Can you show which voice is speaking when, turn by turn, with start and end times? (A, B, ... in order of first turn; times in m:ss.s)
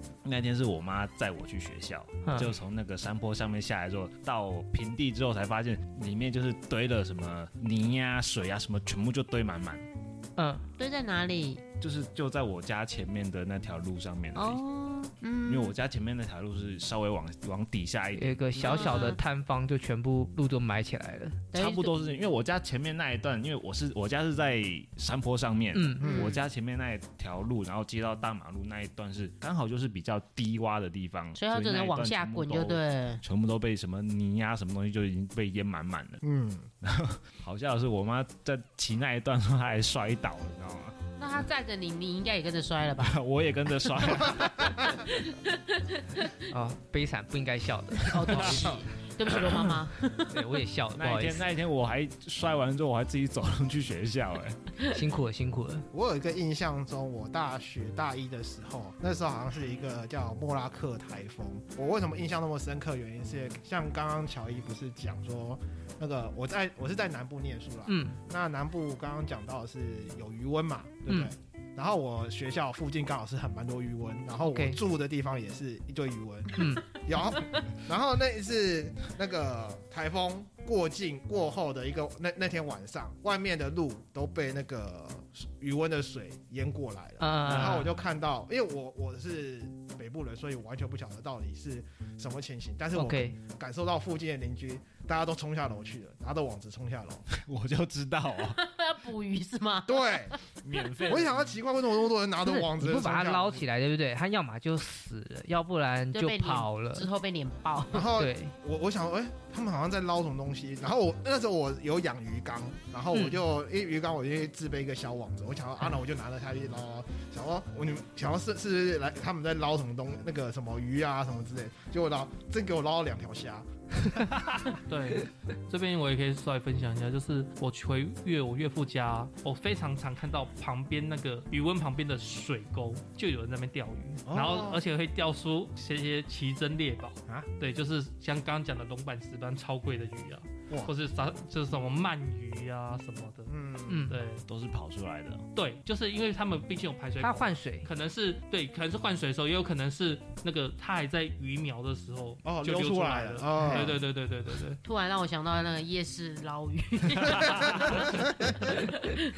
0:00.2-0:09.8 A
0:02.2-0:02.5 B
0:10.4-0:10.6 B
0:10.8-0:11.6 C
0:11.8-0:14.6 A
0:14.4-0:15.8 C
0:15.4-0:19.1 A
0:18.2-0:21.5 B
0:18.6-0:19.2 C
0:21.5-0:22.0 C
0:21.6-0:36.2 A
0:25.7-0:26.1 B
0:26.0-0:26.5 C
0:26.0-0:26.3 D
0:31.4-0:33.2 C
0:36.2-0:36.7 D
0:36.8-0:41.0 A
0:41.2-0:43.2 C
0:43.0-0:44.9 A
0:44.0-0:46.4 C
0:46.5-0:48.8 B
0:48.0-0:50.5 C
0:48.3-0:48.7 A
0:50.3-0:51.4 B
0:51.0-0:54.6 A
0:54.9-0:55.9 B
0:55.9-1:37.3 D
1:07.9-1:08.2 B
1:11.1-1:11.3 B
1:14.4-1:14.8 B
1:16.6-1:16.8 B
1:27.2-1:27.9 B
1:32.9-1:33.4 B
1:37.3-1:38.6 A
1:38.3-1:40.4 C
1:39.9-1:40.4 D
1:40.6-1:41.4 A
1:41.1-1:43.6 D
1:42.4-1:47.1 B
1:46.1-1:48.1 C
1:47.9-2:04.2 D
1:48.2-1:48.5 B
2:04.9-2:23.5 E
2:14.3-2:14.8 D
2:23.5-2:24.1 D
2:23.9-2:24.2 B
2:24.1-2:24.4 E
2:24.5-2:25.4 A
2:25.6-2:34.8 E
2:27.2-2:27.9 B
2:32.4-2:34.0 D
2:34.8-2:39.2 C
2:37.4-2:38.1 D